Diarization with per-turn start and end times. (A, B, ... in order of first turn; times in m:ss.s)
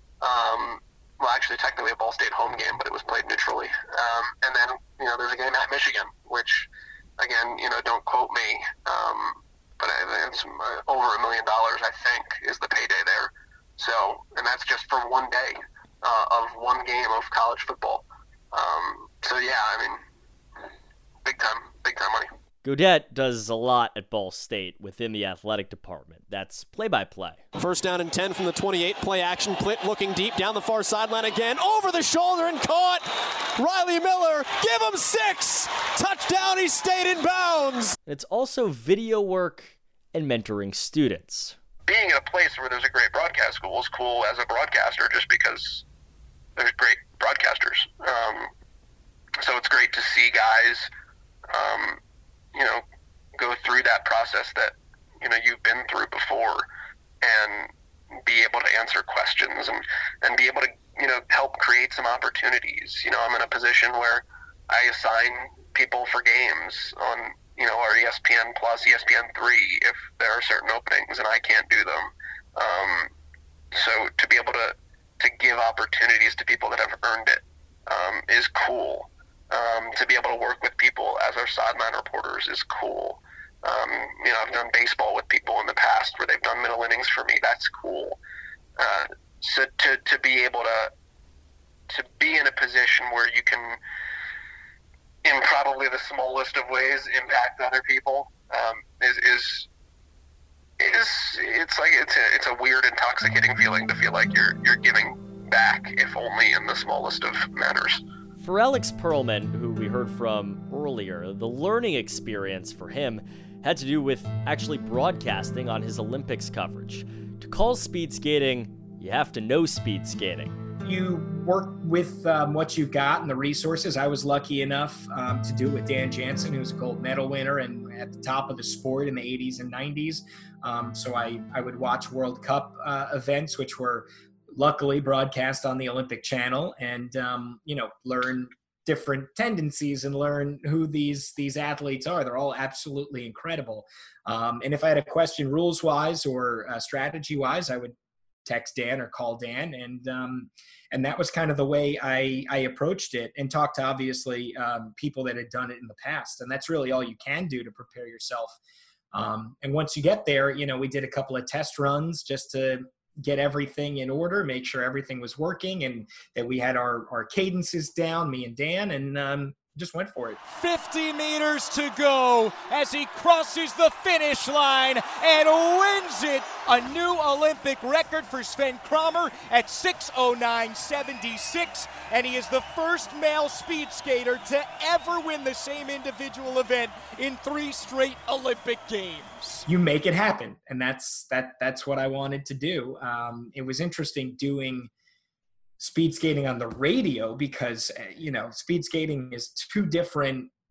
0:00.2-0:20.0 A
0:21.2-0:22.3 A
0:22.6-0:27.4 B
0:27.6-0:37.9 C
0:38.1-0:41.6 B
0:41.9-0:45.8 A
0:46.6-0:48.5 A
0:49.4-0:50.9 A
0:51.5-0:52.0 A
0:52.5-0:52.8 A
0:53.4-0:56.7 A
0:57.2-1:13.1 A
1:13.7-1:28.2 A
1:28.8-1:30.9 A
1:31.9-1:33.8 A
1:35.2-1:39.7 A
1:40.8-1:48.0 A
1:48.4-2:00.6 B
2:00.8-2:38.6 D
2:39.1-2:50.4 D
2:50.5-3:09.6 E
3:09.7-3:14.9 D
3:15.8-3:20.5 D